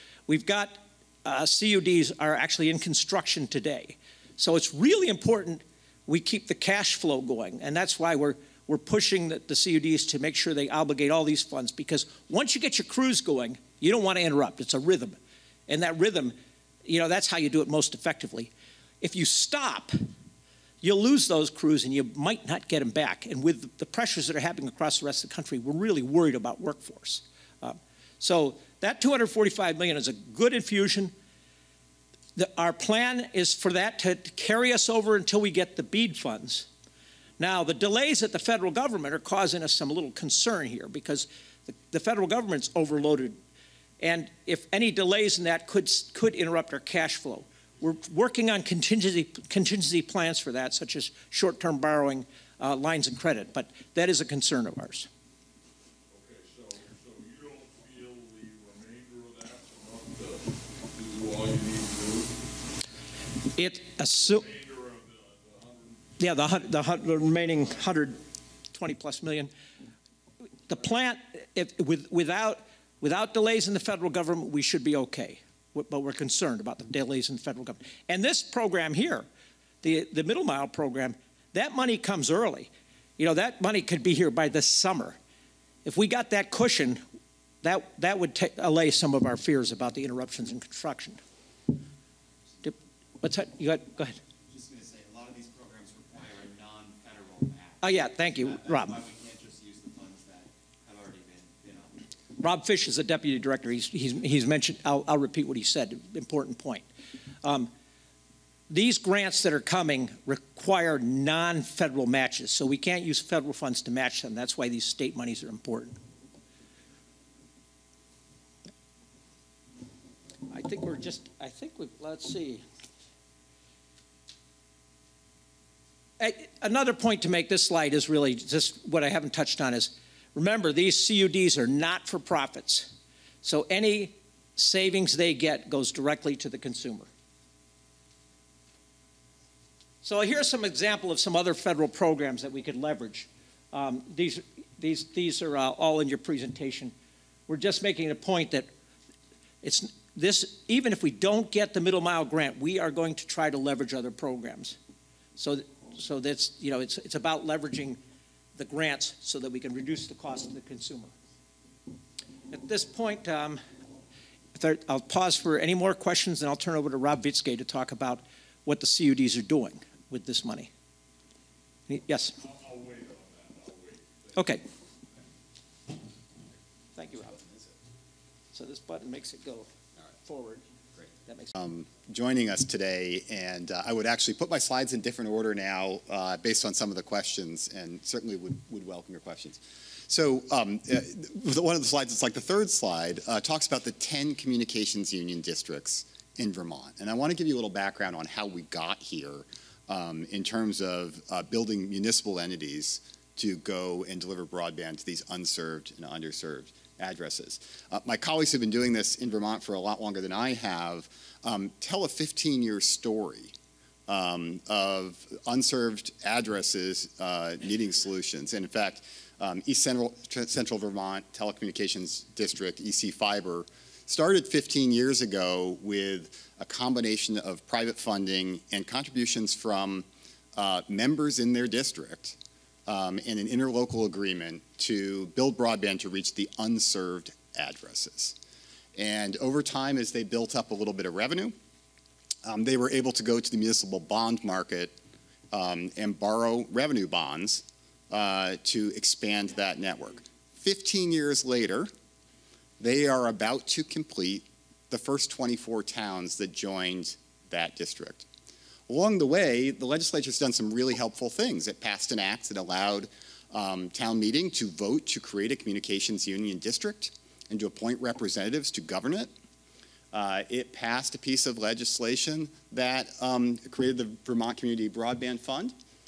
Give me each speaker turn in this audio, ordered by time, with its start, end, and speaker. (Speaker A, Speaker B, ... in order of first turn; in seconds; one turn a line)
Speaker A: 0.3-15.2
Speaker A: 15.7-16.3
Speaker A: 16.9-18.5
Speaker A: 19.0-19.9
Speaker A: 20.8-31.1
Speaker A: 32.4-36.7
Speaker A: 37.4-43.4
Speaker A: 44.0-55.1
Speaker B: 56.1-62.3
Speaker A: 63.5-64.5
Speaker B: 64.1-66.3
Speaker A: 66.2-68.2
Speaker B: 67.3-67.7
Speaker A: 68.7-69.5
Speaker A: 70.7-79.3
Speaker A: 79.8-85.2
Speaker A: 85.8-87.0
Speaker A: 87.6-91.2
Speaker A: 92.6-94.2
Speaker C: 94.5-102.1
Speaker A: 97.8-99.0
Speaker A: 102.4-106.8
Speaker A: 107.4-107.7
Speaker A: 108.7-116.0
Speaker A: 120.5-122.6
Speaker A: 126.2-132.9
Speaker A: 133.4-137.1
Speaker A: 140.0-146.9
Speaker A: 147.5-148.7
Speaker A: 149.6-154.8
Speaker A: 155.4-158.0
Speaker A: 158.6-161.1
Speaker A: 162.5-163.6
Speaker A: 164.6-170.7
Speaker A: 171.9-172.3
Speaker B: 172.3-174.6
Speaker A: 174.3-174.6
Speaker A: 177.0-177.4
Speaker A: 178.5-179.7
Speaker A: 180.2-180.7
Speaker A: 181.3-181.5
Speaker D: 181.5-213.5
Speaker D: 214.1-238.4
Speaker D: 238.9-241.5
Speaker D: 242.4-244.9
Speaker D: 245.5-251.9
Speaker D: 252.8-258.3
Speaker D: 258.9-269.3
Speaker D: 270.1-275.8